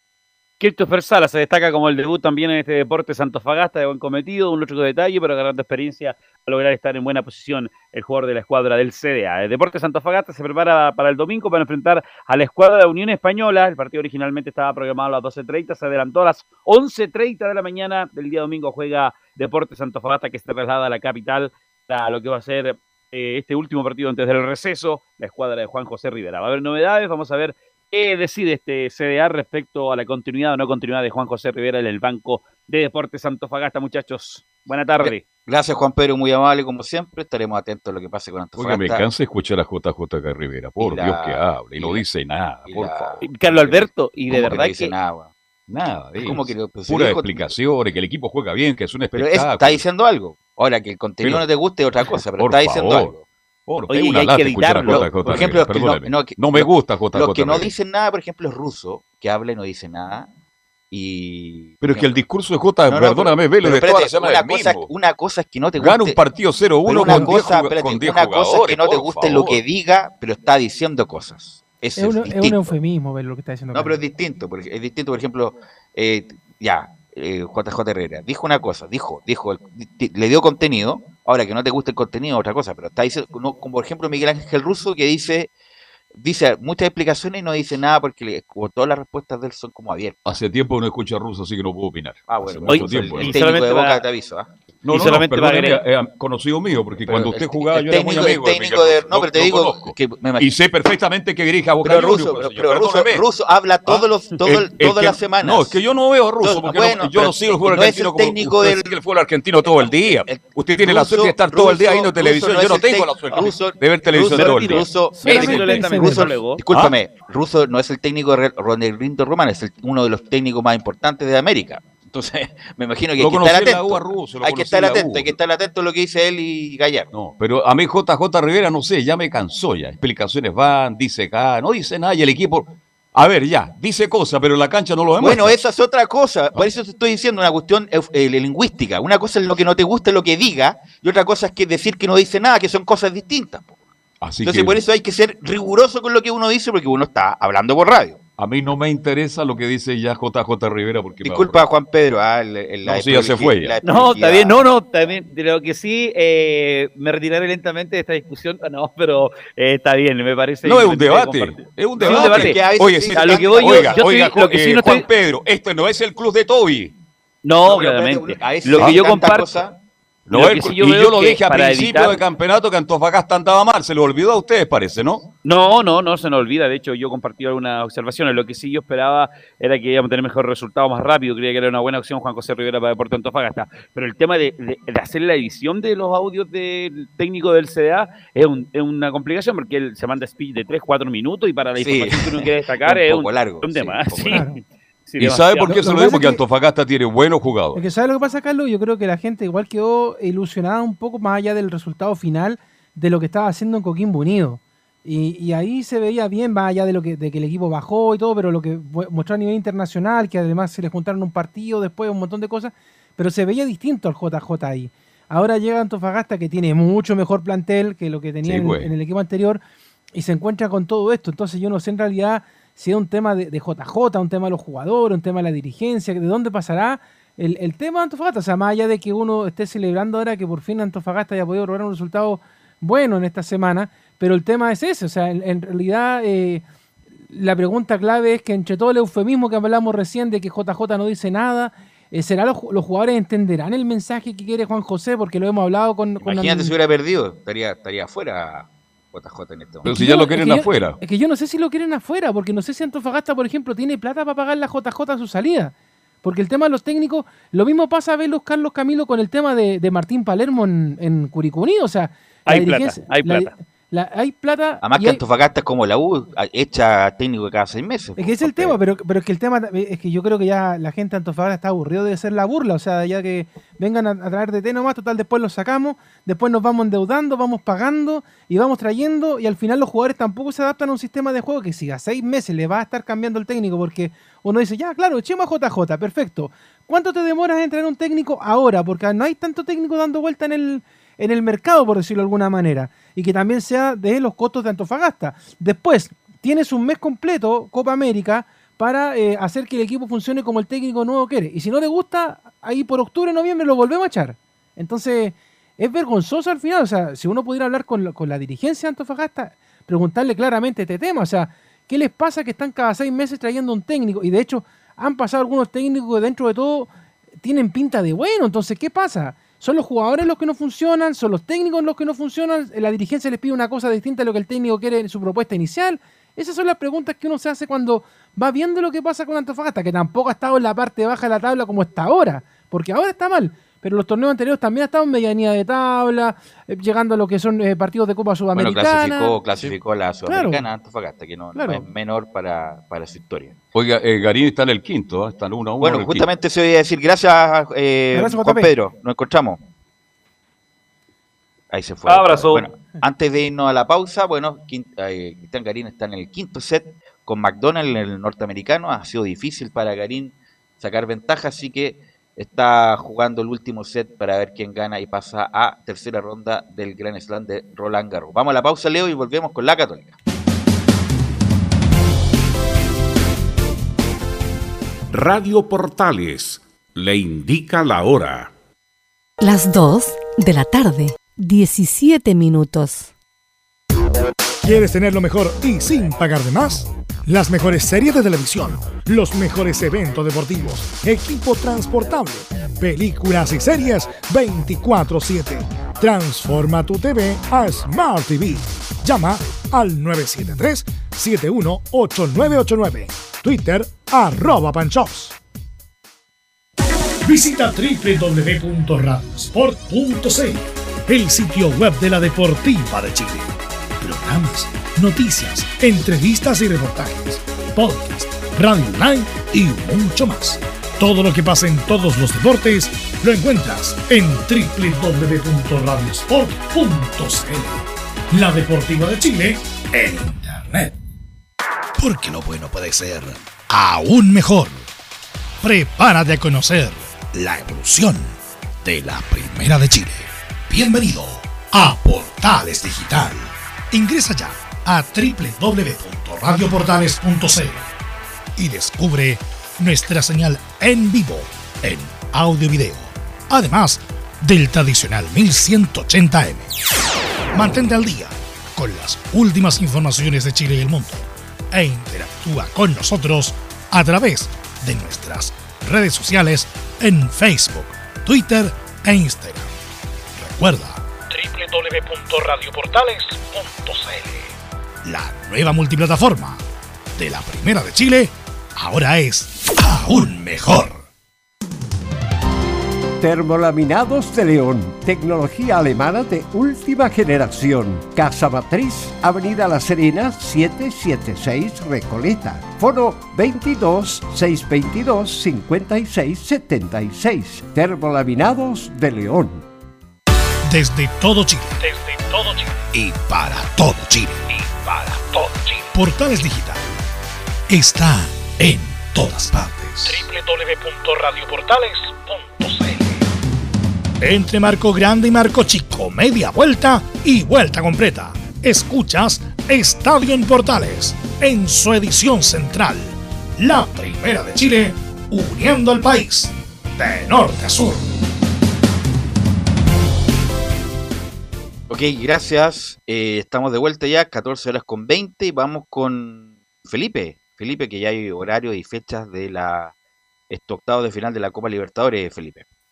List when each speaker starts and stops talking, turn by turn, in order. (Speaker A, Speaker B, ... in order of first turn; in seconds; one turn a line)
Speaker A: 0.6-35.3
Speaker B: 35.0-39.1
Speaker C: 38.5-43.2
Speaker B: 40.8-42.0
Speaker B: 42.7-45.3
Speaker A: 43.2-44.9
Speaker C: 45.7-49.8
Speaker B: 46.2-47.5
Speaker B: 49.1-53.2
Speaker C: 52.0-53.1
Speaker C: 53.7-57.7
Speaker B: 53.9-60.3
Speaker A: 54.6-55.2
Speaker B: 60.9-62.2
Speaker C: 61.8-64.9
Speaker B: 62.9-66.2
Speaker C: 65.8-69.6
Speaker B: 66.8-72.7
Speaker D: 72.0-74.0
Speaker B: 73.7-85.5
Speaker B: 86.1-90.4
Speaker C: 90.2-93.5
Speaker B: 92.3-94.5
Speaker A: 92.7-94.0
Speaker C: 94.8-103.2
Speaker A: 94.9-95.8
Speaker B: 97.0-100.6
Speaker B: 101.8-105.8
Speaker C: 103.9-114.9
Speaker B: 106.4-108.9
Speaker B: 109.6-127.1
Speaker A: 114.1-116.6
Speaker D: 115.2-116.3
Speaker C: 123.2-125.4
Speaker C: 127.1-135.6
Speaker B: 135.2-143.8
Speaker C: 144.2-144.8
Speaker B: 144.4-148.2
Speaker C: 148.4-151.6
Speaker B: 151.2-154.7
Speaker C: 152.8-153.8
Speaker A: 153.8-165.0
Speaker C: 160.6-166.9
Speaker B: 162.0-164.3
Speaker A: 167.4-169.7
Speaker B: 167.6-169.7
Speaker C: 170.3-175.3
Speaker A: 170.3-172.2
Speaker A: 175.4-195.8
Speaker B: 191.8-194.5
Speaker D: 194.3-194.6
Speaker C: 195.2-197.8
Speaker D: 195.7-196.4
Speaker D: 197.7-219.6
Speaker C: 218.4-218.9
Speaker D: 220.1-236.6
Speaker D: 237.3-246.7
Speaker B: 246.2-250.0
Speaker C: 249.8-251.0
Speaker D: 249.9-265.2
Speaker A: 262.4-263.5
Speaker B: 264.8-268.8
Speaker D: 268.2-316.9
Speaker D: 317.4-339.4
Speaker B: 338.5-343.6
Speaker D: 340.3-340.6
Speaker D: 341.5-341.8
Speaker C: 343.7-346.3
Speaker B: 345.8-349.6
Speaker D: 348.1-348.7
Speaker B: 351.7-370.1
Speaker A: 352.0-352.6
Speaker E: 375.1-378.5
Speaker F: 379.4-383.1
Speaker G: 384.6-405.3
Speaker G: 407.2-413.5
Speaker G: 414.0-430.9
Speaker G: 432.0-434.8
Speaker G: 435.6-438.3
Speaker G: 438.8-447.8
Speaker G: 448.6-456.7
Speaker G: 457.5-469.7
Speaker G: 470.4-474.3
Speaker G: 475.0-476.6
Speaker G: 477.2-481.0
Speaker H: 483.2-499.6
Speaker G: 500.7-506.9
Speaker G: 507.7-513.1
Speaker G: 514.2-528.2
Speaker B: 531.9-539.9
Speaker B: 540.5-542.6